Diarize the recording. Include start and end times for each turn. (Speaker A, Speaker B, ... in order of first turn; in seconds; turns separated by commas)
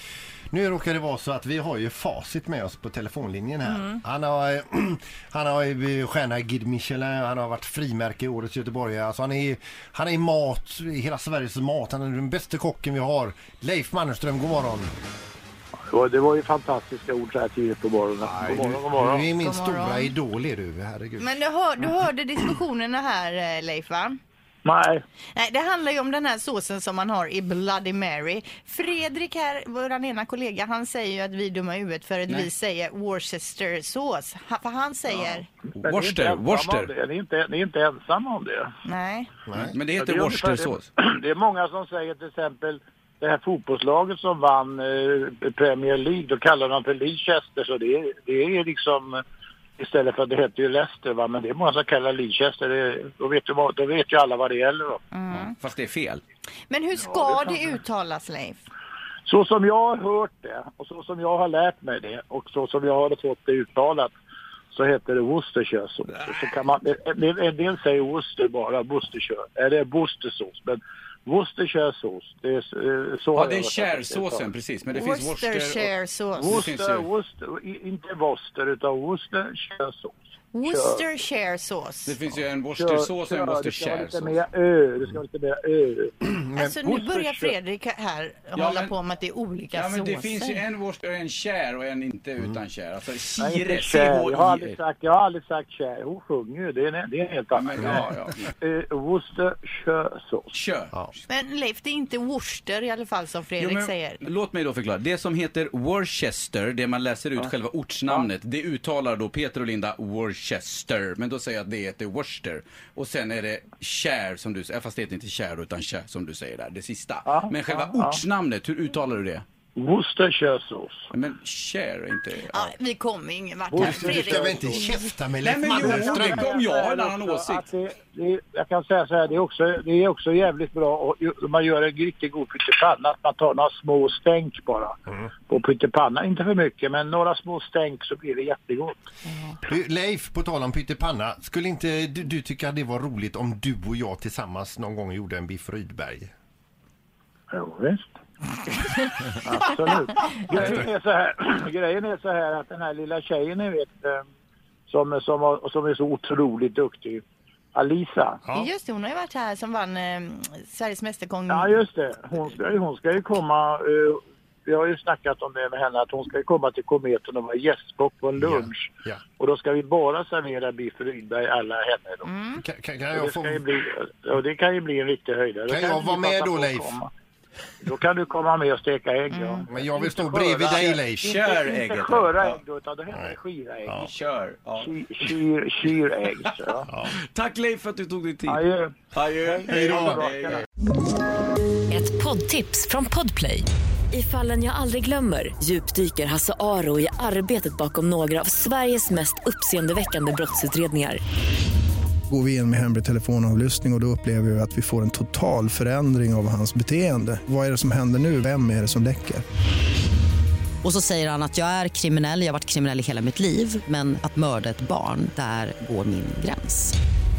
Speaker A: 0.5-14.9, Speaker B: 3.7-4.0, Speaker C: 15.9-19.3, Speaker A: 18.3-21.3, Speaker B: 19.4-20.1, Speaker B: 21.2-24.2, Speaker C: 24.6-25.0, Speaker B: 25.3-35.5, Speaker C: 35.1-38.8, Speaker D: 35.8-36.9, Speaker B: 38.8-39.4, Speaker A: 39.5-39.7, Speaker D: 39.7-40.9, Speaker C: 40.0-49.2, Speaker C: 49.8-55.0, Speaker B: 55.1-55.5, Speaker D: 55.3-56.2, Speaker B: 56.7-58.6, Speaker C: 57.1-57.8, Speaker C: 59.2-64.1, Speaker C: 64.7-74.5, Speaker D: 73.3-75.9, Speaker B: 74.9-76.4, Speaker C: 76.3-81.1, Speaker D: 76.5-77.0, Speaker B: 80.5-82.1, Speaker D: 82.0-84.4, Speaker C: 82.7-86.1, Speaker A: 86.2-86.8, Speaker B: 86.6-90.6, Speaker C: 86.8-87.5, Speaker D: 88.5-88.9, Speaker D: 89.7-94.8, Speaker C: 93.4-98.0, Speaker D: 97.5-98.5, Speaker C: 98.6-100.5, Speaker D: 100.5-101.0, Speaker B: 101.3-104.2, Speaker D: 103.6-119.4, Speaker C: 117.3-118.2, Speaker C: 119.8-121.1, Speaker D: 121.1-122.7, Speaker B: 122.4-125.1, Speaker C: 123.7-124.9, Speaker A: 123.8-126.5, Speaker D: 125.4-127.7, Speaker C: 125.7-135.0, Speaker C: 135.5-139.0, Speaker A: 139.7-146.3, Speaker C: 147.5-148.1, Speaker C: 149.4-154.2, Speaker C: 154.9-157.2, Speaker C: 157.7-158.4, Speaker B: 158.6-161.8, Speaker C: 161.5-172.3, Speaker A: 168.4-169.2, Speaker B: 172.2-172.6, Speaker A: 172.6-173.6, Speaker C: 173.1-177.1, Speaker A: 175.7-176.9, Speaker C: 177.8-184.1, Speaker B: 179.3-179.7, Speaker A: 179.7-181.3, Speaker D: 181.2-182.6, Speaker A: 183.1-184.1, Speaker D: 184.0-184.9, Speaker C: 184.8-186.9, Speaker D: 186.5-190.6, Speaker A: 186.9-187.1, Speaker C: 188.5-188.9, Speaker C: 189.5-190.6, Speaker A: 189.7-190.2, Speaker E: 191.9-201.2, Speaker F: 202.3-209.4, Speaker G: 210.8-216.9